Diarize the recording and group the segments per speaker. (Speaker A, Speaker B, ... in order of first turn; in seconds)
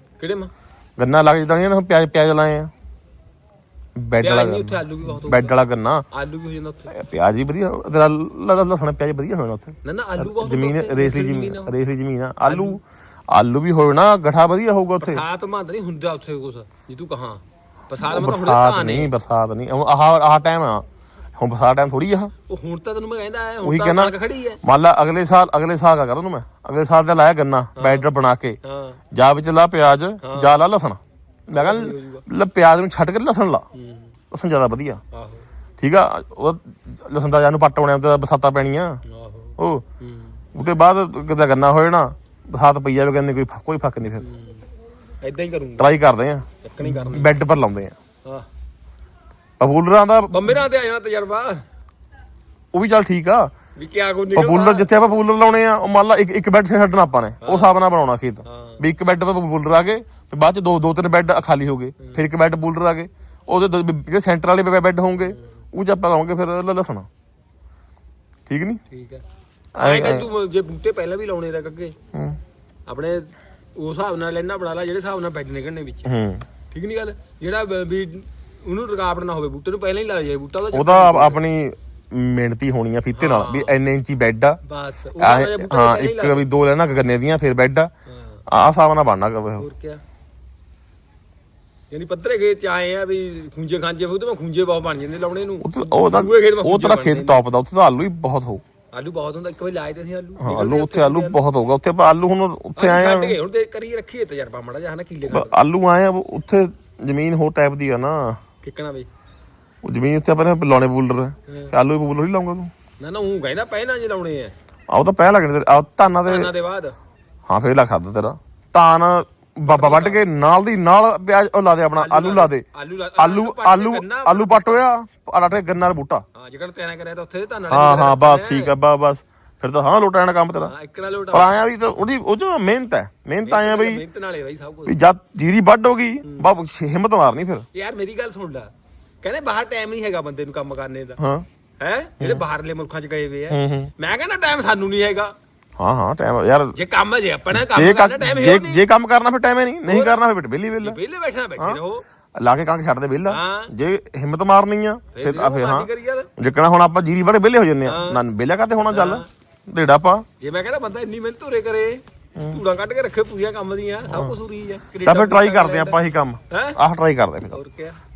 Speaker A: 0.2-0.5, 4.2-5.6, 6.1-6.9, 9.8-11.8, 12.4-12.8, 15.0-19.1, 22.5-24.6, 27.8-28.1, 28.6-29.0, 30.2-30.6, 31.5-32.2, 33.7-34.1, 35.1-35.5, 39.0-40.4, 44.2-44.6, 45.2-46.0, 46.6-47.4, 50.3-51.6, 53.8-54.9, 57.4-57.7, 58.4-58.8, 68.9-69.2, 69.8-72.0, 72.8-76.1, 76.7-81.4, 83.2-83.8, 84.6-86.5, 88.1-88.4, 89.6-90.0, 91.9-97.4, 98.9-101.4, 102.8-105.6, 108.6-109.1, 111.5-111.7, 113.0-114.5, 116.2-117.0, 119.7-120.2, 121.9-124.8, 126.3-128.7, 130.6-131.6, 133.4-134.9, 136.2-136.5, 137.7-138.7, 139.2-141.2, 141.8-145.3, 146.7-148.8, 149.8-150.2, 150.8-152.0, 153.3-153.7, 155.1-156.3, 157.8-158.2, 158.8-159.3, 160.4-166.8, 167.5-168.0
Speaker B: 1.0-2.7, 4.0-6.0, 6.9-15.2, 18.0-20.8, 21.4-22.3, 23.6-28.6, 29.1-33.6, 34.3-35.0, 35.8-39.0, 39.6-39.8, 40.5-44.2, 45.8-47.9, 49.6-50.6, 52.7-53.5, 54.3-67.1, 68.5-68.8, 69.8-70.3, 72.1-72.4, 76.0-76.5, 80.7-84.6, 85.2-87.9, 88.5-89.7, 95.6-98.6, 100.4-103.4, 105.3-108.4, 109.8-112.7, 114.9-116.5, 117.5-122.6, 123.2-126.2, 127.7-130.7, 131.3-134.0, 134.8-137.6, 141.2-141.4, 143.5-143.9, 145.8-146.7, 147.5-151.0, 152.3-160.2, 164.1-164.3, 165.0-167.6